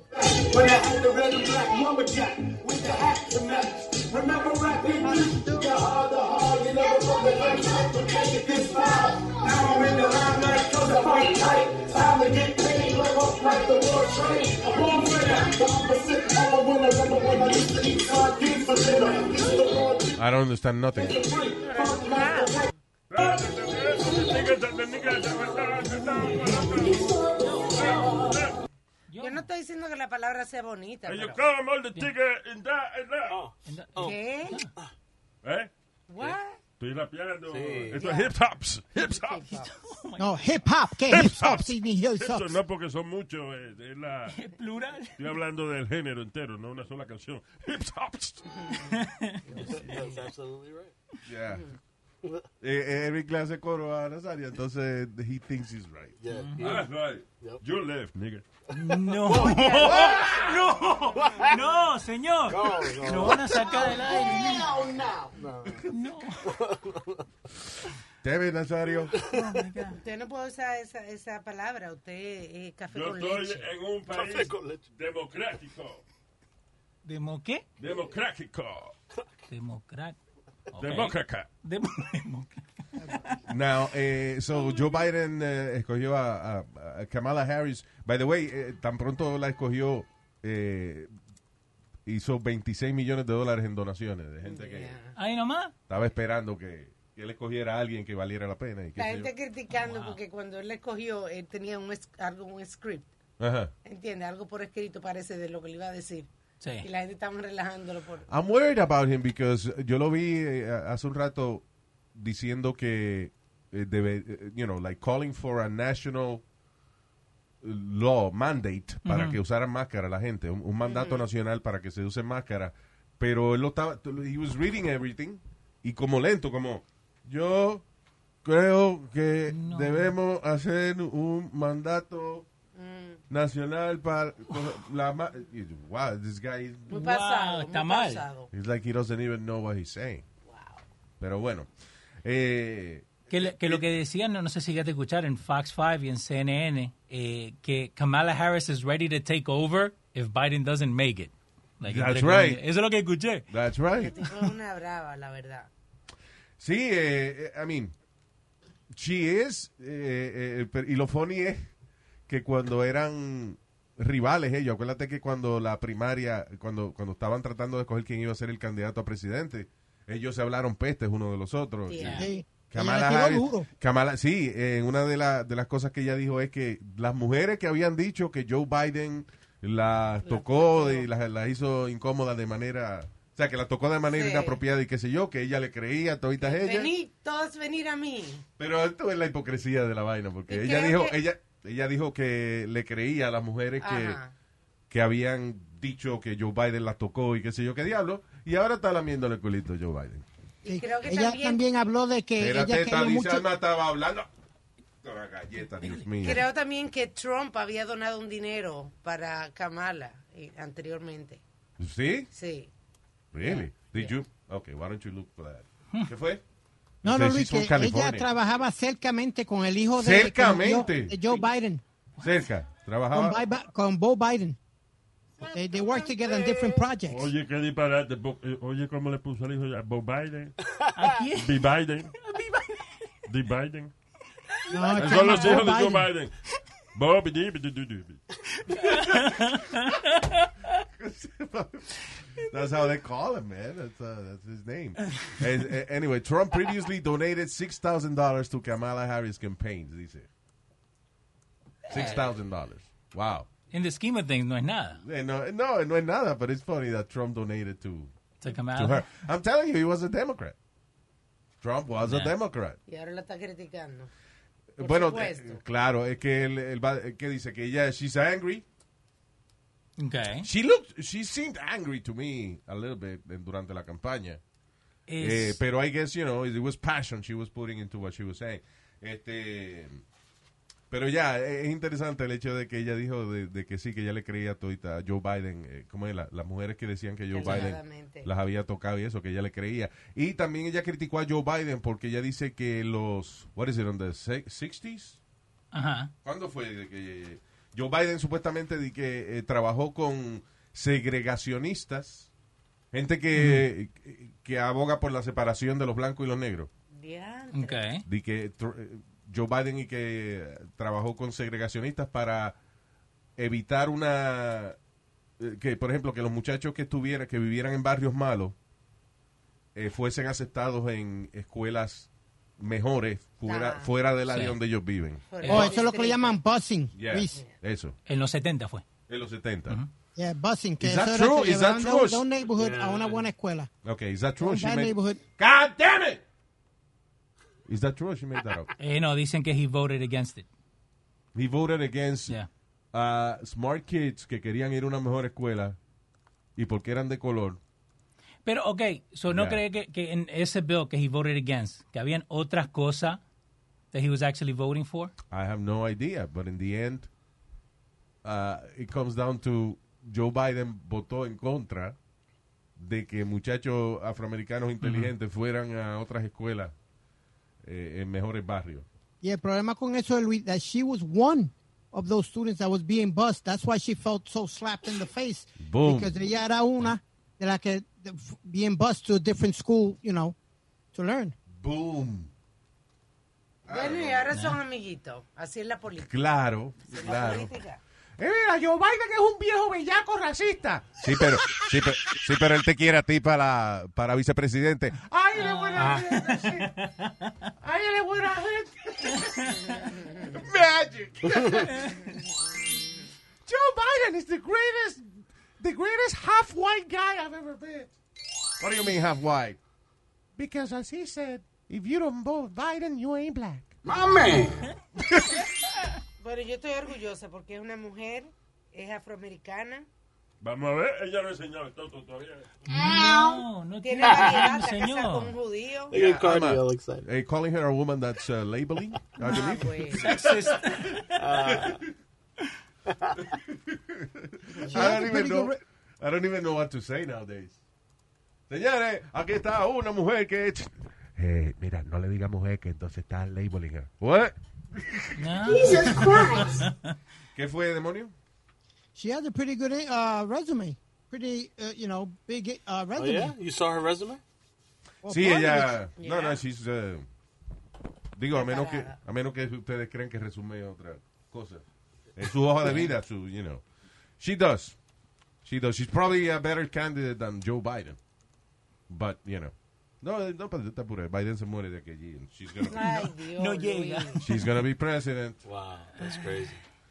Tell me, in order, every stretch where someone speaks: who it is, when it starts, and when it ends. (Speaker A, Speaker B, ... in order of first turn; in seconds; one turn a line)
Speaker A: 0.2-20.2
Speaker B: 5.0-5.8
Speaker C: 20.2-21.2
Speaker A: 21.0-22.7
Speaker D: 21.6-22.7
Speaker E: 23.1-28.6
Speaker A: 26.9-28.2
Speaker F: 27.4-28.0
Speaker F: 29.1-29.5
Speaker D: 29.2-31.4
Speaker E: 31.1-33.4
Speaker A: 33.3-34.2
Speaker F: 33.7-34.7
Speaker D: 34.0-34.6
Speaker E: 35.4-39.6
Speaker D: 36.1-36.6
Speaker A: 37.5-38.1
Speaker D: 37.9-38.3
Speaker D: 39.1-39.8
Speaker F: 39.6-40.7
Speaker B: 40.2-42.5
Speaker E: 41.1-44.4
Speaker F: 44.3-45.2
Speaker E: 45.2-48.5
Speaker D: 48.5-49.0
Speaker F: 48.7-50.2
Speaker A: 49.5-50.9
Speaker C: 51.2-51.6
Speaker C: 52.6-56.2
Speaker A: 56.2-57.6
Speaker F: 56.3-56.8
Speaker E: 56.6-58.4
Speaker F: 58.7-64.7
Speaker A: 59.0-61.5
Speaker C: 59.8-60.5
Speaker A: 62.5-65.9
Speaker F: 65.8-66.5
Speaker A: 66.4-67.2
Speaker C: 68.2-69.2
Speaker A: 69.1-69.6
Speaker F: 69.2-70.0
Speaker D: 69.9-73.7
Speaker E: 72.9-76.0
Speaker A: 74.1-74.9
Speaker F: 77.0-77.6
Speaker E: 77.8-78.9
Speaker F: 79.5-80.2
Speaker F: 80.7-83.2
Speaker E: 80.8-81.5
Speaker C: 83.5-91.1
Speaker C: 92.1-95.0
Speaker D: 94.4-95.2
Speaker F: 95.2-95.7
Speaker C: 95.9-99.3
Speaker D: 99.0-103.1
Speaker F: 99.7-100.2
Speaker C: 103.4-103.7
Speaker D: 103.8-106.3
Speaker F: 106.6-106.9
Speaker D: 106.8-108.3
Speaker C: 108.3-116.4
Speaker C: 117.6-127.8
Speaker F: 119.0-119.4
Speaker D: 120.8-121.2
Speaker C: 128.4-132.5
Speaker F: 129.5-130.1
Speaker D: 132.8-133.2
Speaker C: 133.3-137.0
Speaker D: 136.9-138.5
Speaker F: 136.9-138.2
Speaker C: 138.5-140.2
Speaker D: 140.5-140.8
Speaker C: 141.2-141.7
Speaker C: 142.2-143.8
Speaker F: 143.3-153.5
Speaker C: 151.8-152.6
Speaker C: 153.5-154.3
Speaker D: 154.0-155.7
Speaker C: 156.6-157.9
Speaker C: 158.9-161.7
Speaker C: 162.3-186.9
Speaker D: 171.9-172.3
Speaker B: 172.0-173.7
Speaker D: 180.2-181.1
Speaker D: 184.1-184.6
Speaker D: 186.4-188.4
Speaker C: 188.6-194.2
Speaker D: 190.5-191.2
Speaker D: 193.8-194.3
Speaker C: 194.9-200.2
Speaker D: 200.6-201.7
Speaker B: 200.7-203.4
Speaker C: 202.4-204.3
Speaker C: 205.0-206.4
Speaker D: 206.2-211.4
Speaker C: 211.8-212.3
Speaker D: 212.3-212.7
Speaker C: 213.3-216.4
Speaker D: 213.4-214.1
Speaker C: 217.0-218.3
Speaker B: 217.0-221.8
Speaker C: 220.0-221.2
Speaker C: 222.2-223.4
Speaker B: 223.1-224.6
Speaker A: 225.4-226.8
Speaker B: 225.5-227.3
Speaker E: 227.1-230.6
Speaker A: 230.7-231.2
Speaker F: 230.9-231.6
Speaker E: 231.3-232.1
Speaker F: 232.1-233.0
Speaker E: 233.3-233.9
Speaker B: 234.7-236.1
Speaker F: 234.8-235.7
Speaker E: 235.0-236.4
Speaker E: 236.9-238.2
Speaker F: 238.7-240.5
Speaker C: 241.0-250.3
Speaker C: 251.9-253.5
Speaker F: 253.7-255.0
Speaker C: 255.0-260.6
Speaker F: 258.4-259.1
Speaker C: 261.6-262.8
Speaker F: 262.0-262.3
Speaker D: 262.9-264.1
Speaker C: 264.8-268.6
Speaker D: 264.8-265.6
Speaker F: 270.0-270.5
Speaker C: 270.4-274.4
Speaker F: 275.1-275.6
Speaker C: 275.2-280.0
Speaker C: 280.9-295.2
Speaker D: 287.3-288.3
Speaker F: 295.7-296.1
Speaker C: 296.2-302.3
Speaker C: 302.9-306.7
Speaker F: 303.4-303.6
Speaker D: 306.9-307.9
Speaker F: 307.5-308.1
Speaker C: 308.1-312.6
Speaker C: 313.4-314.8
Speaker C: 315.4-318.6
Speaker C: 319.8-325.2
Speaker D: 323.5-323.9
Speaker F: 324.3-324.6
Speaker D: 325.3-326.4
Speaker F: 325.4-325.8
Speaker B: 325.5-327.4
Speaker C: 326.9-328.0
Speaker F: 328.1-328.9
Speaker C: 329.1-329.8
Speaker B: 330.1-333.7
Speaker C: 330.8-332.2
Speaker A: 332.5-333.3
Speaker C: 333.8-336.2
Speaker B: 334.4-335.2
Speaker C: 337.7-338.7
Speaker F: 338.8-340.5
Speaker C: 341.3-342.4
Speaker C: 342.9-345.8
Speaker C: 346.6-347.6
Speaker F: 348.4-353.2
Speaker C: 349.3-349.6
Speaker F: 353.9-355.1
Speaker C: 355.3-357.1
Speaker C: 358.2-362.0
Speaker C: 362.8-366.7
Speaker F: 364.8-365.1
Speaker C: 367.6-368.9
Speaker B: 369.2-380.4
Speaker C: 375.6-376.1
Speaker B: 380.9-381.4
Speaker C: 381.5-382.3
Speaker C: 383.6-384.3
Speaker D: 383.7-386.1
Speaker F: 384.3-384.6
Speaker C: 386.0-387.5
Speaker D: 386.9-387.8
Speaker C: 388.2-396.9
Speaker F: 395.4-397.5
Speaker A: 395.8-396.0
Speaker C: 397.6-402.1
Speaker F: 399.1-399.7
Speaker D: 399.6-400.3
Speaker F: 401.6-402.1
Speaker D: 402.1-402.9
Speaker C: 403.4-405.1
Speaker C: 405.6-407.9
Speaker C: 408.6-409.6
Speaker C: 410.4-413.8
Speaker A: 413.9-414.6
Speaker C: 415.0-415.5
Speaker D: 416.2-419.9
Speaker E: 420.4-422.5
Speaker F: 422.7-425.4
Speaker A: 422.7-423.4
Speaker D: 423.8-426.0
Speaker A: 424.0-424.5
Speaker A: 425.9-427.1
Speaker C: 425.9-431.9
Speaker D: 429.2-430.2
Speaker F: 429.2-431.3
Speaker A: 431.1-431.8
Speaker A: 432.9-433.2
Speaker C: 433.3-437.6
Speaker B: 434.7-435.6
Speaker C: 438.5-445.5
Speaker F: 445.1-446.9
Speaker A: 445.4-446.7
Speaker C: 447.4-448.1
Speaker B: 448.9-453.4
Speaker A: 453.0-454.2
Speaker B: 455.0-455.8
Speaker C: 455.1-457.1
Speaker D: 456.0-456.4
Speaker C: 458.1-461.6
Speaker D: 458.3-459.0
Speaker C: 462.1-463.6
Speaker F: 462.6-462.9
Speaker C: 464.2-464.8
Speaker C: 465.4-468.0
Speaker C: 468.9-472.9
Speaker D: 472.6-474.3
Speaker F: 472.8-474.4
Speaker C: 474.2-475.4
Speaker A: 475.4-476.6
Speaker F: 476.0-476.5